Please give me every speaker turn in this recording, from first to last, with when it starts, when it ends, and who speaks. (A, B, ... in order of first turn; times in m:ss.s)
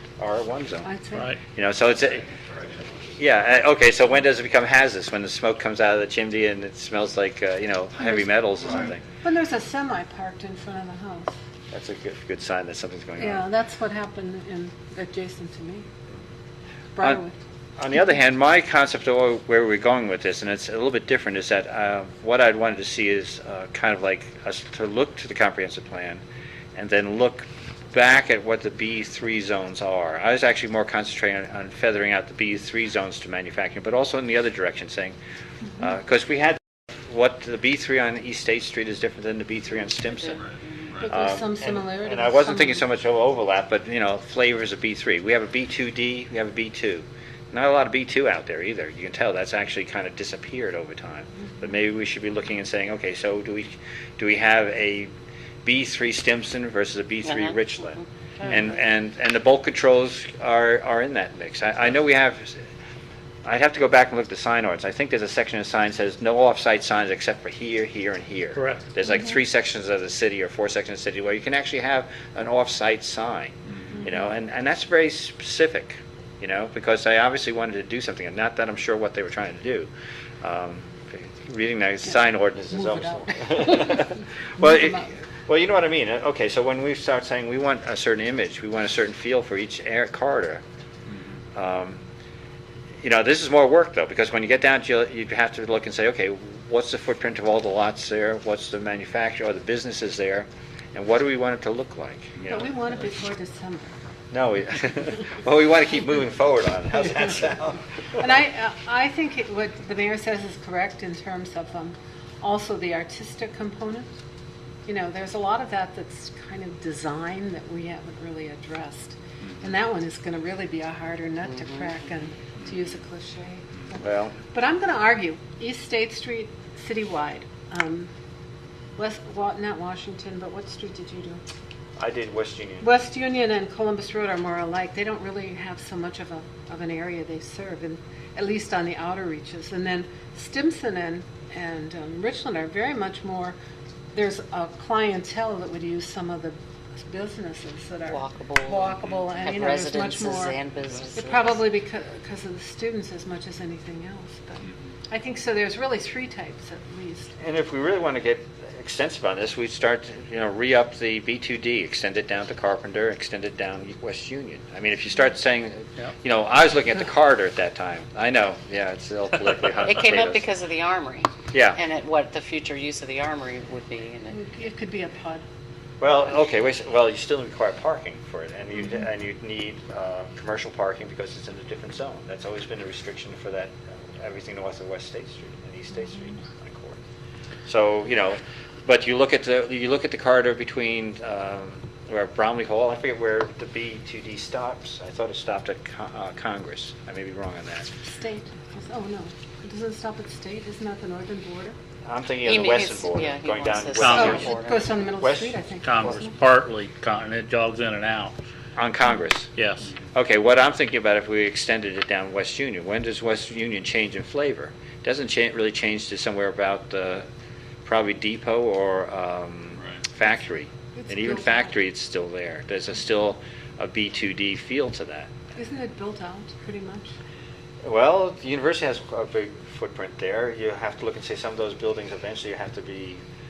0:00.2-0:00.9 A
0:00.8-0:01.4 B
0:01.5-0:02.3 A
0:03.2-0:09.0 A
0:08.0-0:08.3 B
0:09.1-0:11.4 B
0:11.7-0:13.4 A
0:13.2-0:15.9 B
0:17.0-0:17.4 B
0:17.8-0:26.2 A
0:26.8-0:35.2 A
0:35.8-0:40.4 A
0:40.1-0:41.0 C
0:41.0-0:42.9 B
0:41.1-0:55.1 A
0:55.6-1:02.6 A
0:57.2-0:58.6 C
1:03.4-1:19.9 A
1:20.4-1:30.6 A
1:22.7-1:25.1 B
1:31.6-1:32.0 A
1:33.0-1:42.7 A
1:42.5-1:43.9 B
1:44.3-1:48.2 A
1:48.2-1:54.1 B
1:54.9-2:08.1 B
2:01.4-2:01.9 C
2:04.0-2:04.4 A
2:09.0-2:11.4 B
2:12.0-2:12.9 A
2:12.8-2:23.6 B
2:24.1-2:30.6 B
2:28.1-2:31.6 C
2:31.2-2:37.3 B
2:37.4-2:50.5 A
2:49.9-2:54.4 C
2:51.5-2:51.8 A
2:54.3-2:55.4 B
2:56.0-3:07.0 A
3:07.7-3:17.9 A
3:18.1-3:21.8 B
3:22.0-3:24.6 A
3:22.4-3:24.9 C
3:24.0-3:26.4 B
3:25.2-3:26.2 A
3:25.8-3:28.4 D
3:28.8-3:29.5 A
3:29.6-3:29.9 D
3:30.1-3:37.3 A
3:37.8-3:45.3 A
3:41.0-3:41.7 B
3:45.6-3:47.1 B
3:47.8-3:53.2 A